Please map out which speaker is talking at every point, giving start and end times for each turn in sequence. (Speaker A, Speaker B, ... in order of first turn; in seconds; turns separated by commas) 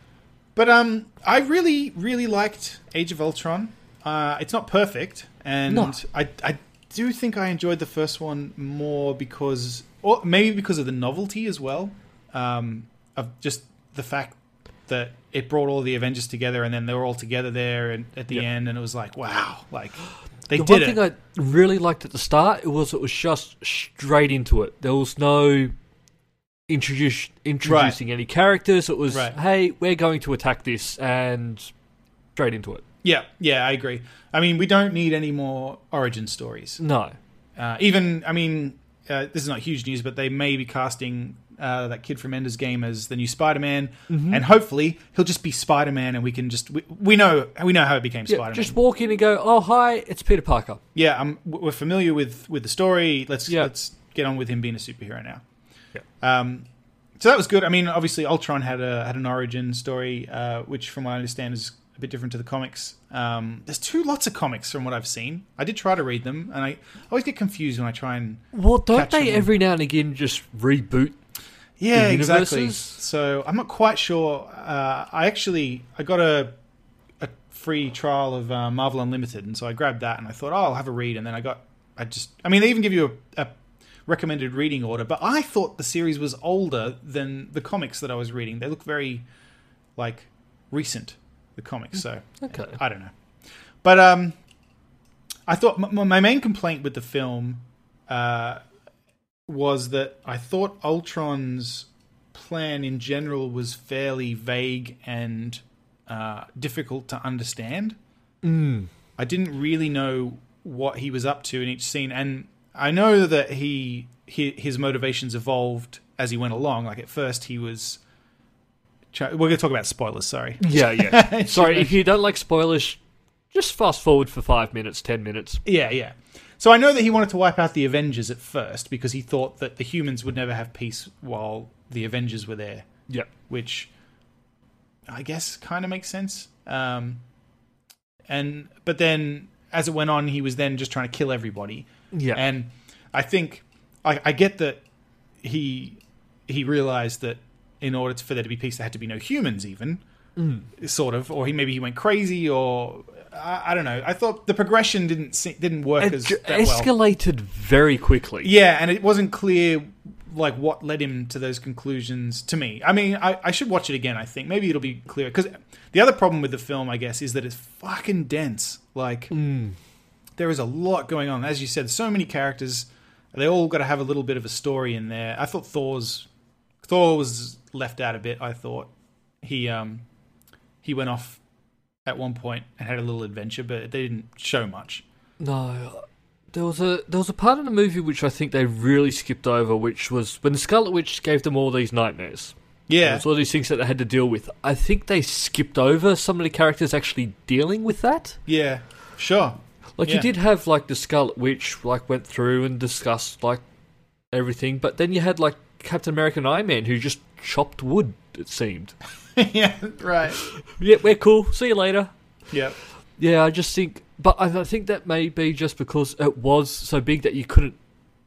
Speaker A: 0.6-14.3, Speaker B: 5.7-5.9, Speaker A: 14.9-21.0, Speaker B: 20.5-25.7, Speaker B: 26.7-31.7, Speaker A: 27.6-28.0, Speaker A: 29.1-29.3, Speaker B: 32.4-32.8, Speaker A: 33.0-36.8, Speaker B: 36.8-37.2, Speaker A: 37.6-48.8, Speaker B: 44.1-44.4, Speaker B: 48.3-50.8, Speaker A: 50.9-55.4, Speaker A: 56.2-56.7, Speaker A: 57.2-69.5, Speaker B: 68.5-71.2, Speaker A: 71.8-76.5, Speaker B: 71.9-73.0, Speaker A: 77.2-83.5, Speaker A: 84.0-89.2, Speaker A: 90.0-93.1, Speaker B: 92.4-92.8, Speaker A: 93.8-94.3, Speaker A: 95.5-98.6, Speaker A: 99.5-108.0, Speaker B: 108.4-108.9, Speaker A: 109.2-118.0, Speaker A: 119.1-122.0, Speaker B: 120.6-123.0, Speaker B: 123.5-125.6, Speaker A: 125.6-132.9, Speaker A: 133.5-133.9, Speaker A: 135.1-137.2, Speaker A: 138.3-144.8, Speaker B: 142.1-142.4, Speaker A: 145.4-150.0, Speaker B: 150.4-150.7, Speaker A: 150.8-156.9, Speaker B: 156.0-158.5, Speaker A: 158.4-169.3, Speaker B: 169.3-169.8, Speaker A: 170.4-176.3, Speaker A: 176.8-178.9, Speaker A: 179.4-180.0, Speaker A: 180.8-181.4, Speaker A: 182.1-185.0, Speaker B: 185.4-198.4, Speaker A: 192.9-193.2, Speaker A: 198.5-200.3, Speaker B: 200.0-203.6, Speaker B: 204.3-208.9, Speaker A: 209.3-210.4, Speaker B: 210.4-212.1, Speaker B: 213.2-217.8